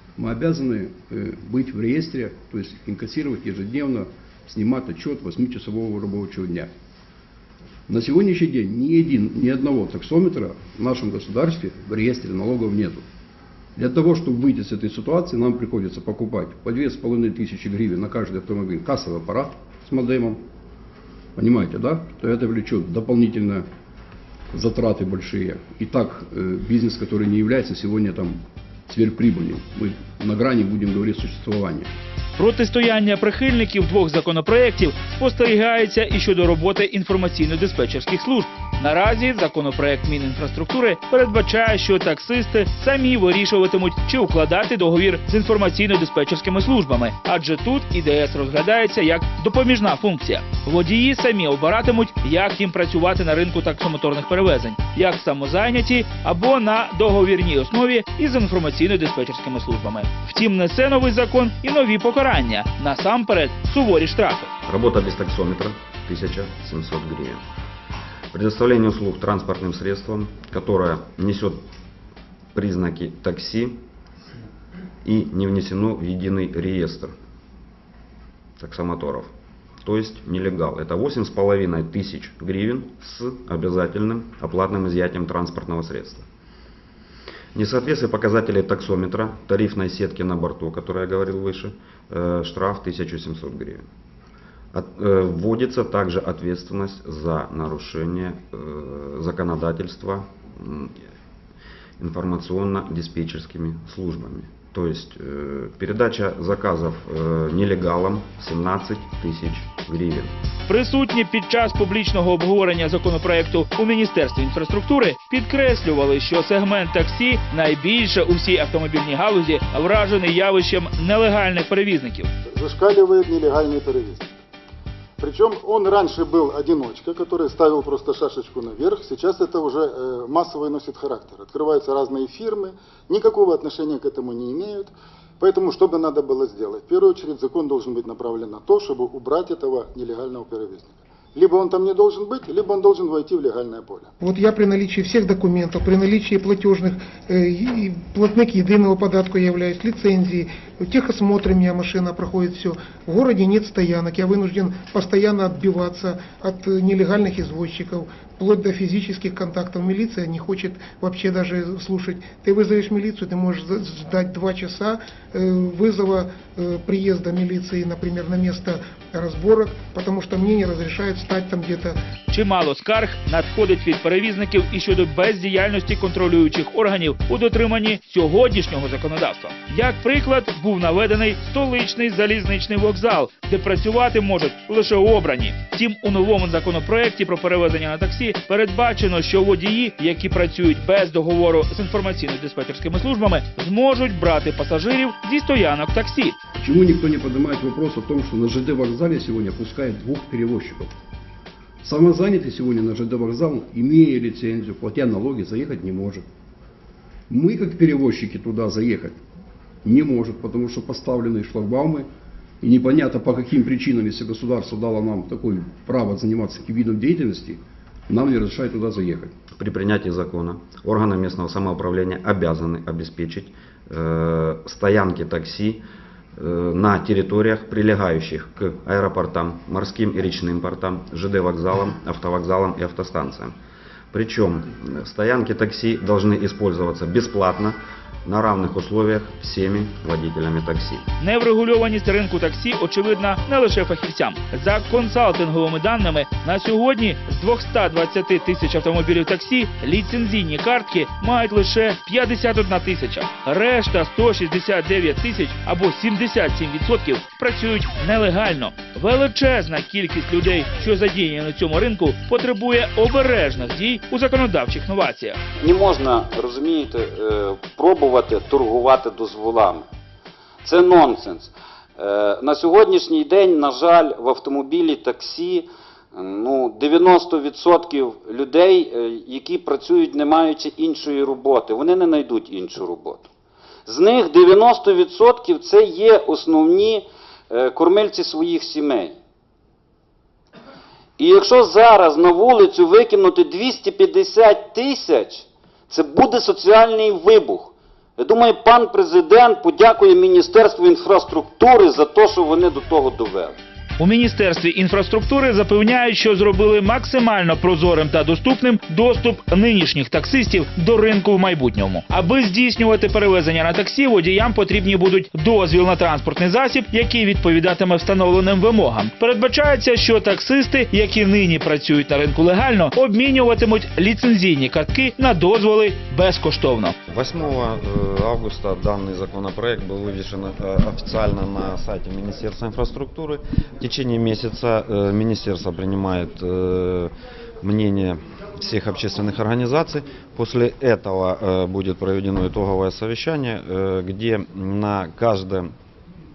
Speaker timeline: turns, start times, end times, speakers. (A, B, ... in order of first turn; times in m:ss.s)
0:00.2-0:06.7 A
0:07.9-0:13.0 A
0:13.8-0:20.4 A
0:21.4-0:23.7 A
0:24.5-0:31.9 A
0:32.4-1:04.5 B
1:04.7-1:07.4 C
1:08.3-1:11.6 C
1:12.5-1:13.8 C
1:15.0-1:17.1 C
1:18.6-1:19.3 C
1:19.8-1:26.2 C
1:27.6-1:33.8 C
1:34.7-1:41.0 C
1:42.0-1:50.3 C
1:50.7-2:02.3 B
2:02.5-2:04.3 D
2:05.2-2:24.1 D
2:24.2-2:52.0 E
2:52.3-3:16.4 B
3:16.6-3:20.9 A
3:21.8-3:26.2 A
3:27.3-3:29.2 A
3:29.8-3:32.1 A
3:32.6-3:39.3 A
3:39.6-3:45.8 C
3:46.4-3:53.6 C
3:54.1-4:01.1 C
4:01.2-4:25.4 B
4:25.6-4:29.9 F
4:30.6-4:43.3 F
4:43.9-4:49.2 F
4:51.2-5:03.6 F
5:04.0-5:27.0 B
5:27.1-5:37.1 C
5:37.6-5:45.7 C